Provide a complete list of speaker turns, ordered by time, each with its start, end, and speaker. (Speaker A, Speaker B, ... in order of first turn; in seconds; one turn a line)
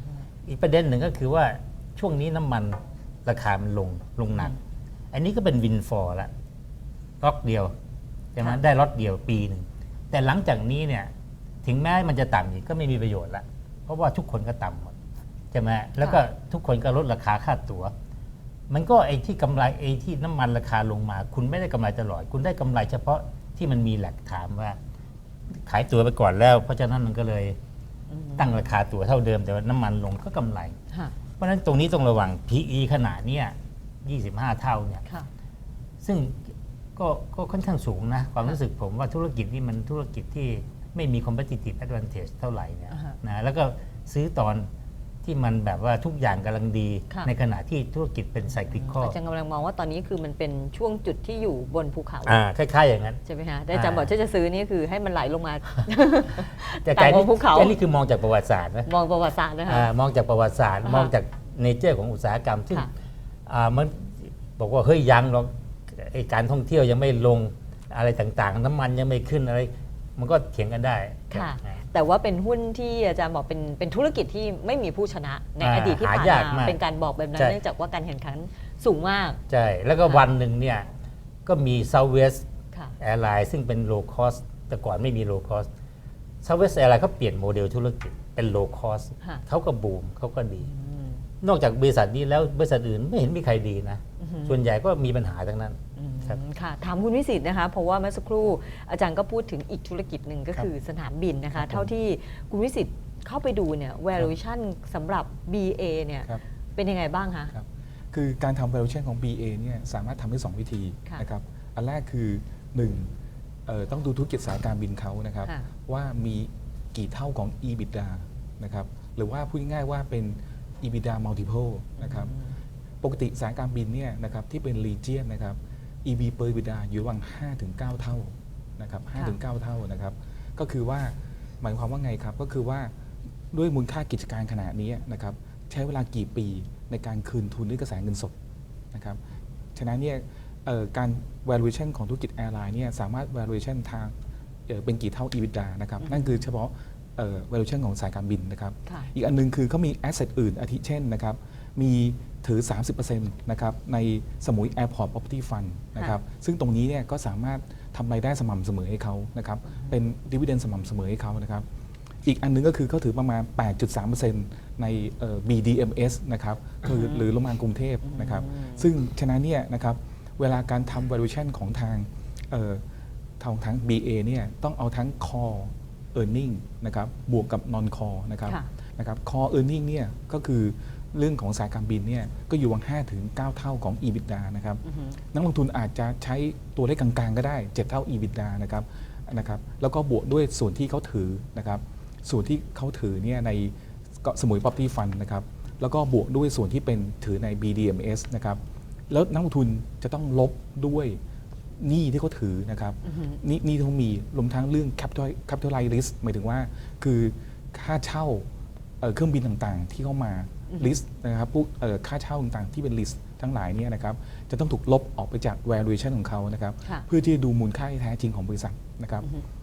Speaker A: 0.5-4.5
Speaker A: 5.1-6.3
Speaker A: 7.2-7.7
Speaker A: 8.3-11.1
Speaker A: 11.6-14.9
Speaker A: 15.5-17.9
Speaker A: 18.7-24.8
Speaker A: 25.5-27.6
Speaker B: 28.1-28.5
Speaker A: 28.4-30.8
Speaker A: 31.4-35.0
Speaker A: 36.0-44.7
Speaker B: 42.9-43.2
Speaker A: 45.2-49.1
Speaker B: 48.8-52.4
Speaker A: 52.2-53.2
Speaker B: 53.2-57.8
Speaker A: 53.7-54.1
Speaker A: 56.5-58.9
Speaker B: 58.9-59.9
Speaker A: 59.7-62.9
Speaker B: 60.8-61.1
Speaker A: 63.5-71.7
Speaker B: 71.3-79.4
Speaker A: 75.6-76.8
Speaker A: 79.5-80.9
Speaker A: 81.5-82.4
Speaker A: 83.0-85.7
Speaker A: 86.4-90.7
Speaker B: 90.7-91.2
Speaker A: 91.4-96.4
Speaker B: 94.2-94.5
Speaker B: 96.0-107.5
Speaker C: 101.5-101.9
Speaker C: 107.5-113.1
Speaker C: 113.7-122.3
Speaker B: 122.0-122.5
Speaker C: 123.0-132.9
Speaker C: 133.5-138.3
Speaker C: 138.9-139.2
Speaker C: 139.7-144.1
Speaker C: 144.7-161.7
Speaker B: 146.0-146.4
Speaker C: 162.2-172.8
Speaker B: 166.8-167.2
Speaker B: 168.0-168.9
Speaker C: 173.4-184.8
Speaker B: 184.8-185.2
Speaker C: 185.3-201.2
Speaker C: 201.8-208.4
Speaker B: 203.1-203.4
Speaker C: 209.0-219.3
Speaker B: 210.7-210.9